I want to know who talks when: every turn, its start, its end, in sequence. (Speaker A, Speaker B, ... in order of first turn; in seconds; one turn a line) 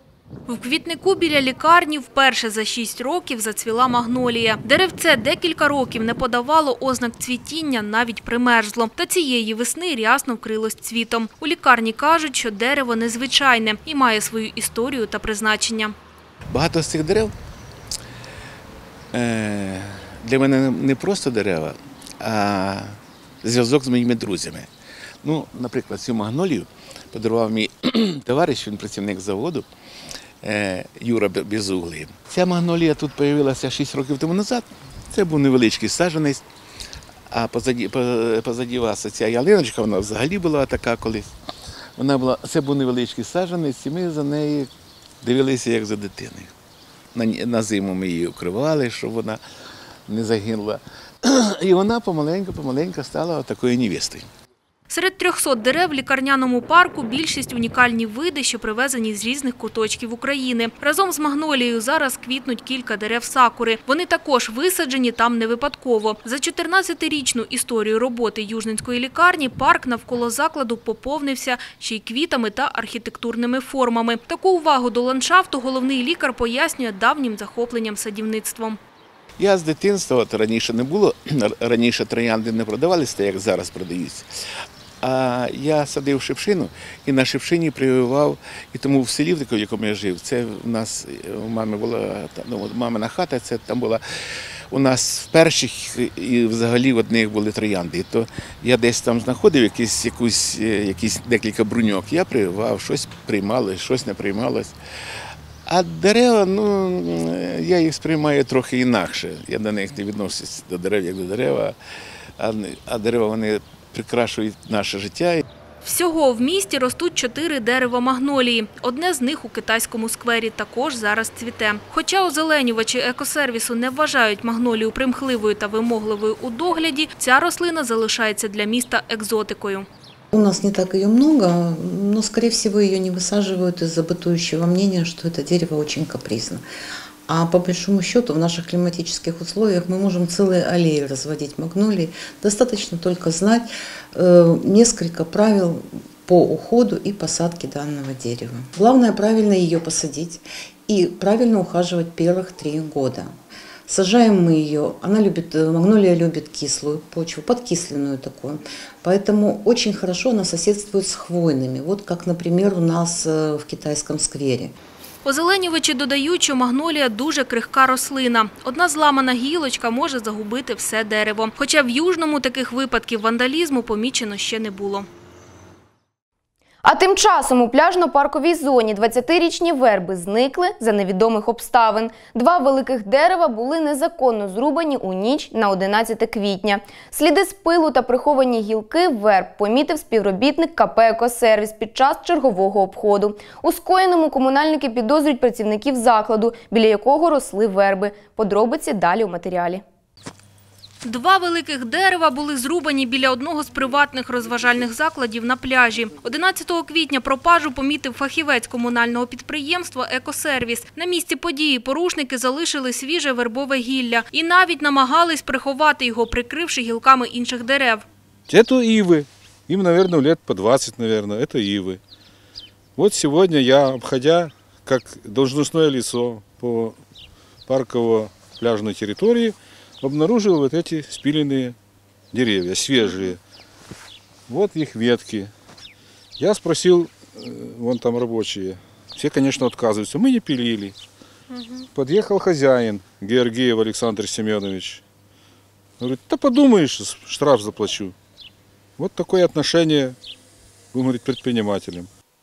Speaker A: 0.5-15.9
Speaker B: 16.5-17.3
Speaker B: 19.1-24.7
Speaker B: 25.2-29.6
Speaker B: 30.4-36.4
Speaker B: 37.3-41.3
Speaker B: 42.0-44.7
Speaker B: 45.2-46.5
Speaker B: 47.1-49.4
Speaker B: 50.1-54.2
Speaker A: 54.9-78.8
Speaker B: 79.4-84.2
Speaker B: 85.0-94.0
Speaker B: 94.7-104.7
Speaker B: 105.7-111.8
Speaker B: 112.4-115.4
Speaker A: 115.8-129.8
Speaker C: 130.3-136.6
Speaker C: 137.3-153.3
Speaker C: 153.9-164.7
Speaker A: 165.2-175.1
Speaker D: 176.8-199.8
Speaker A: 201.0-218.0
Speaker E: 218.5-222.0
Speaker E: 222.9-227.0
Speaker E: 227.7-231.8
Speaker E: 232.3-233.4
Speaker E: 234.5-235.5
Speaker E: 236.4-240.9
Speaker A: 241.5-241.8
Speaker E: 241.9-245.0
Speaker E: 246.0-248.1
Speaker E: 249.0-250.2
Speaker E: 250.9-252.1